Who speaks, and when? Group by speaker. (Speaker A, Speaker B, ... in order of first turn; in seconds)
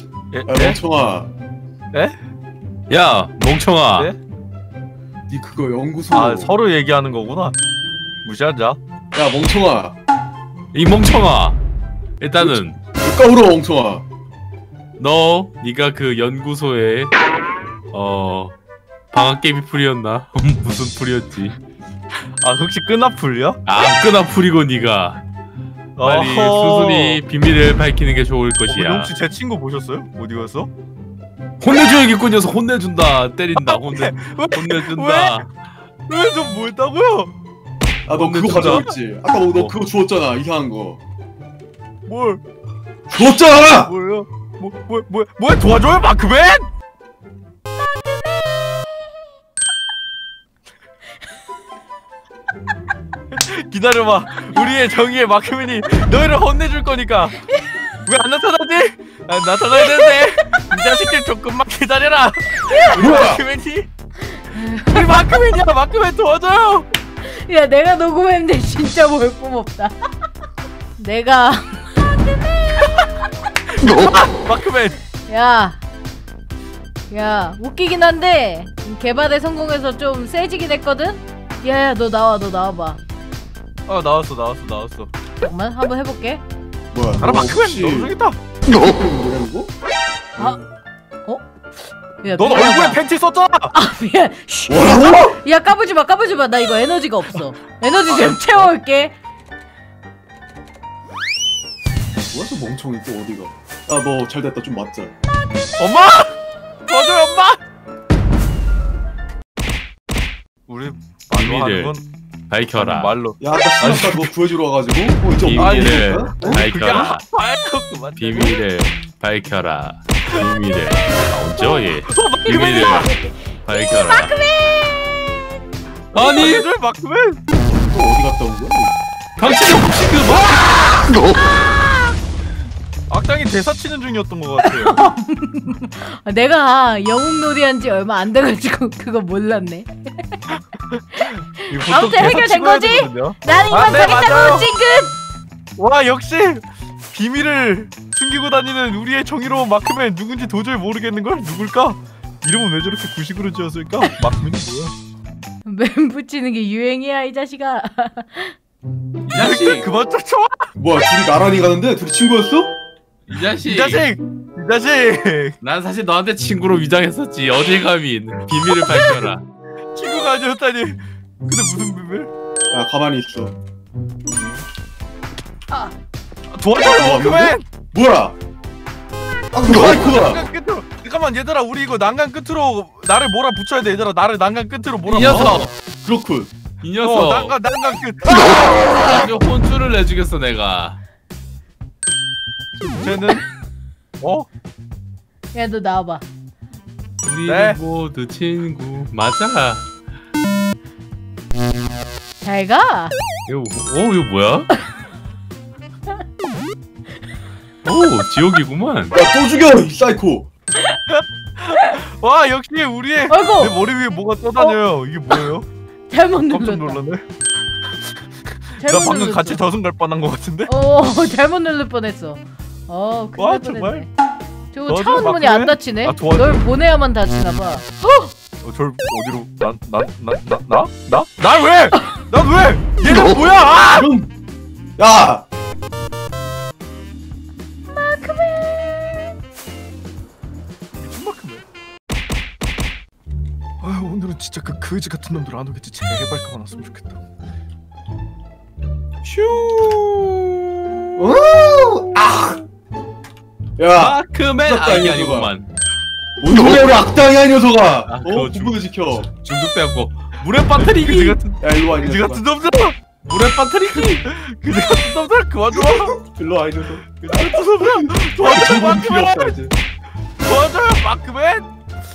Speaker A: 0.3-0.8, 6.1-7.6, 8.2-8.8, 22.4-23.6, 26.0-27.2, 28.7-30.7, 33.5-35.5, 36.1-37.3, 38.2-38.9, 42.1-42.4, 43.7-46.7, 53.3-57.4, 58.0-63.9, 64.9-66.9, 73.7-75.0, 83.9-85.1, 87.2-88.4, 92.3-93.7, 98.1-98.7, 105.8-107.6, 110.7-112.0, 112.7-114.3, 115.6-118.6, 122.1-123.1, 126.1-127.4, 133.1-134.9, 140.9-144.7, 145.8-154.9, 159.3-160.7, 163.3-165.6, 168.8-169.3, 169.9-172.3, 176.5-177.7, 179.7-185.7, 187.0-188.4, 192.8-193.4, 194.2-194.5, 197.4-197.8, 211.1-215.7, 216.5-217.2, 218.8-220.7, 223.4-224.0, 224.9-226.6, 228.6-234.1, 241.0-241.7, 243.8-247.2, 260.4-263.0, 264.2-266.2, 267.2-269.6, 270.4-271.7
Speaker B: 0.5-1.3, 5.3-6.5, 9.1-9.9, 12.4-14.1, 38.1-41.0, 43.1-43.9, 62.9-63.4, 86.9-88.1, 88.7-89.7, 94.7-95.4, 102.3-105.1, 113.4-116.7, 127.7-128.9, 160.8-162.7, 172.7-173.5, 174.3-174.6, 176.8-178.3, 179.5-180.4, 185.2-186.5, 188.8-189.1, 209.1-210.5, 233.9-234.3, 235.0-235.5, 251.2-252.6, 253.8-255.5, 256.4-259.3, 261.6-262.4, 265.7-269.7
Speaker C: 2.9-4.1, 10.7-11.6, 12.2-12.8, 15.0-17.1, 17.9-18.5, 19.1-21.6, 23.6-25.2, 26.0-29.1, 31.6-35.7, 111.3-112.0, 112.5-113.2, 115.4-117.2, 118.2-123.1, 123.6-124.3, 126.1-126.7, 129.4-131.1, 159.2-159.9, 163.3-164.1, 165.6-169.4, 185.1-185.7, 186.8-187.6, 188.3-191.0, 197.2-199.9, 203.5-204.7, 207.8-209.2, 249.2-251.3, 253.9-255.7, 258.1-261.4, 263.2-264.2
Speaker D: 59.8-60.6, 62.7-63.2, 64.4-65.2, 67.2-70.0, 71.0-73.0, 75.3-75.8, 77.1-83.0, 85.4-86.4, 90.4-90.7, 92.2-93.0, 93.7-99.2, 122.5-125.6, 131.4-132.1, 134.6-140.6, 141.6-145.2, 155.7-158.5, 195.5-196.2, 202.4-203.2, 211.7-212.0, 213.3-213.8, 216.1-217.0, 218.8-219.6, 220.7-224.1, 224.7-228.3, 237.9-239.3